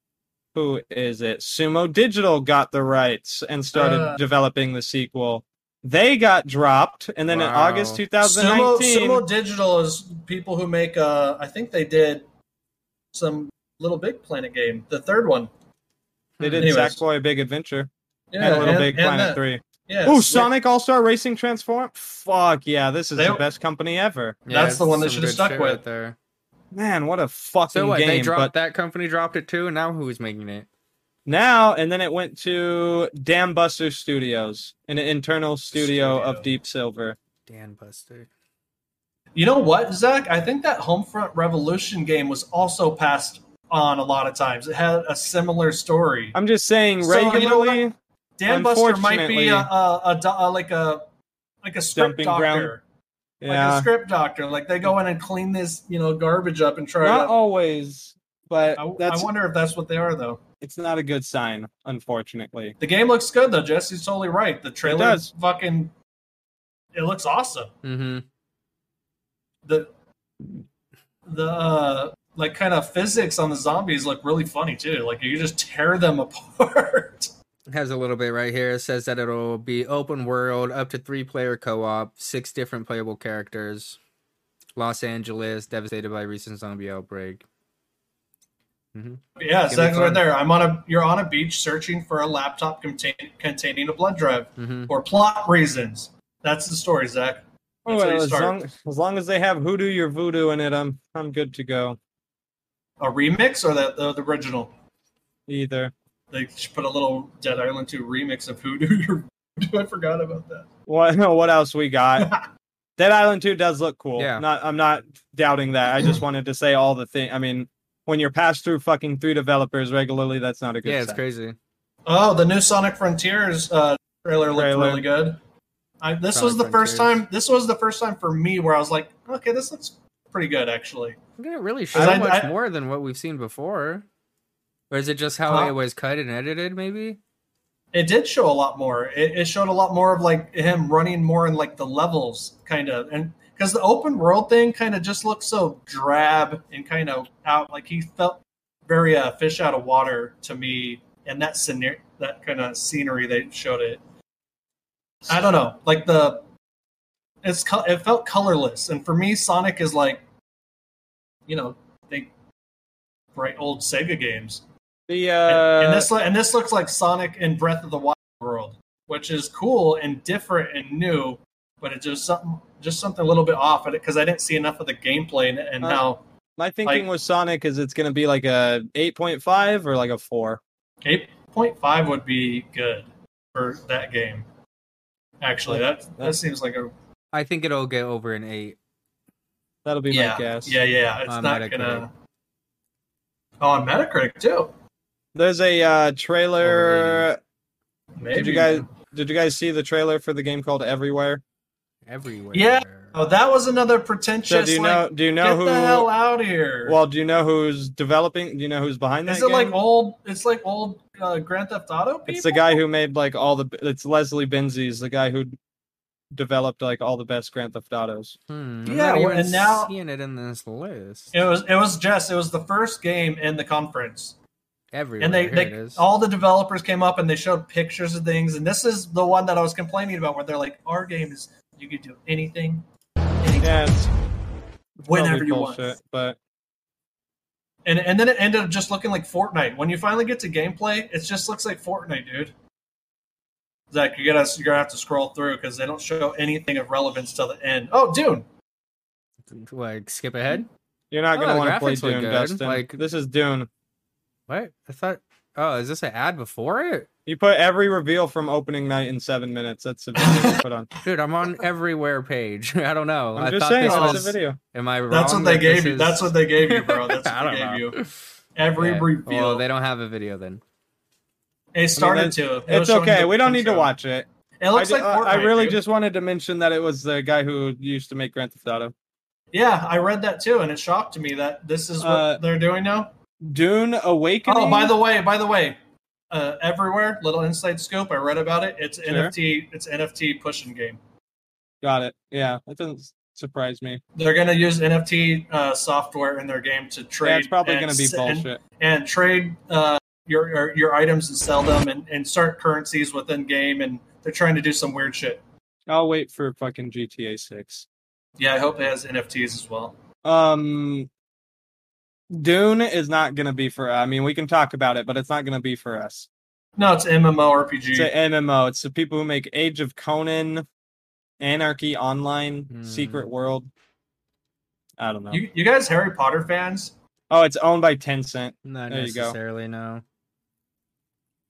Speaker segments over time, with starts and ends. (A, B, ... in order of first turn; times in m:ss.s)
0:00.6-0:09.2 A
0:03.7-0:04.2 B
0:07.3-0:08.0 C
0:08.2-0:12.3 B
0:13.1-0:15.5 B
0:16.4-0:16.7 C
0:16.4-0:24.4 A
0:16.6-0:17.0 B
0:18.3-0:20.5 B
0:23.2-0:23.4 B
0:24.5-0:26.2 C
0:24.5-0:25.8 B
0:26.7-0:28.5 A
0:27.7-0:30.7 C
0:31.3-0:37.2 A
0:35.7-0:36.5 B
0:37.5-0:38.3 C
0:39.4-0:46.4 B
0:46.4-0:47.9 A
0:47.0-0:47.9 B
0:48.4-0:51.1 B
0:48.5-0:49.7 A
0:51.6-0:52.8 B
0:51.9-0:52.7 A
0:53.4-0:53.9 A
0:53.5-0:57.3 B
0:57.0-0:59.3 A
0:58.8-1:00.4 B
1:00.6-1:02.8 A
1:02.8-1:05.9 B
1:04.8-1:05.3 A
1:06.9-1:07.7 B
1:07.8-1:08.2 C
1:11.3-1:17.3 B
1:17.7-1:24.0 C
1:24.8-1:27.4 C
1:29.0-1:30.2 C
1:29.4-1:38.6 B
1:34.6-1:34.9 C
1:37.9-1:42.0 A
1:43.0-1:44.7 B
1:45.5-1:45.9 A
1:46.3-1:50.7 B
1:50.9-1:52.3 A
1:52.2-1:52.5 B
1:53.0-2:01.2 A
1:54.2-1:54.4 C
2:00.8-2:01.6 C
2:02.1-2:05.4 B
2:04.5-2:05.0 A
2:06.0-2:11.2 B
2:06.3-2:07.2 C
2:11.4-2:14.1 C
2:11.9-2:12.5 B
2:12.0-2:12.2 A
2:14.9-2:17.2 C
2:15.5-2:15.7 B
2:17.9-2:34.0 B
2:35.3-2:36.4 B
2:37.4-2:40.2 B
2:41.5-2:42.3 B
2:43.4-2:44.6 B
2:45.1-2:46.1 A
2:45.5-2:56.2 B
2:56.6-3:00.6 A
3:01.0-3:04.5 B
3:05.4-3:06.9 B
3:05.7-3:06.4 A
3:07.3-3:08.8 C
3:09.8-3:10.8 A
3:10.1-3:12.1 B
3:11.3-3:12.0 C
3:13.6-3:14.7 B
3:15.4-3:17.4 A
3:16.6-3:17.3 C
3:18.2-3:18.9 B
3:18.3-3:21.4 A
3:22.1-3:23.2 C
3:22.5-3:27.0 B
3:24.5-3:26.1 A
3:26.9-3:29.8 A
3:29.3-3:32.8 B
3:32.3-3:35.6 A
3:36.3-3:38.4 A
3:38.5-3:41.3 C
3:38.9-3:39.9 B
3:41.3-3:44.4 B
3:44.9-3:46.0 C
3:45.2-3:52.8 B
3:53.4-3:53.9 B
3:53.6-3:54.1 A
3:55.0-3:56.4 A
3:55.1-3:56.0 B
3:57.8-4:02.5 B
4:03.9-4:08.5 B
4:09.5-4:10.7 C
4:11.1-4:13.7 A
4:11.3-4:13.0 C
4:14.5-4:17.1 C
4:17.3-4:20.9 A
4:20.2-4:20.6 B
4:21.0-4:28.1 C
4:23.4-4:24.6 A
4:23.8-4:24.3 B
4:25.1-4:28.0 B
4:28.6-4:29.6 B
4:28.8-4:30.6 C
4:31.8-4:33.9 B
4:32.0-4:38.9 A
4:34.6-4:35.8 B
4:39.5-4:43.1 B
4:42.0-4:42.4 A
4:43.4-4:45.0 A
4:44.5-4:45.8 B
4:46.3-4:51.0 B
4:49.0-4:49.3 A
4:51.8-4:54.0 A
4:54.2-5:05.4 B
4:57.2-4:58.6 A
5:05.9-5:07.9 A
5:08.4-5:10.0 B
5:10.2-5:11.1 A
5:12.3-5:16.3 A
5:16.8-5:18.1 B
5:17.9-5:20.7 A
5:21.4-5:23.7 A
5:22.7-5:23.2 C
5:25.0-5:25.4 A
5:25.3-5:26.9 B
5:27.3-5:29.4 A
5:28.6-5:30.0 C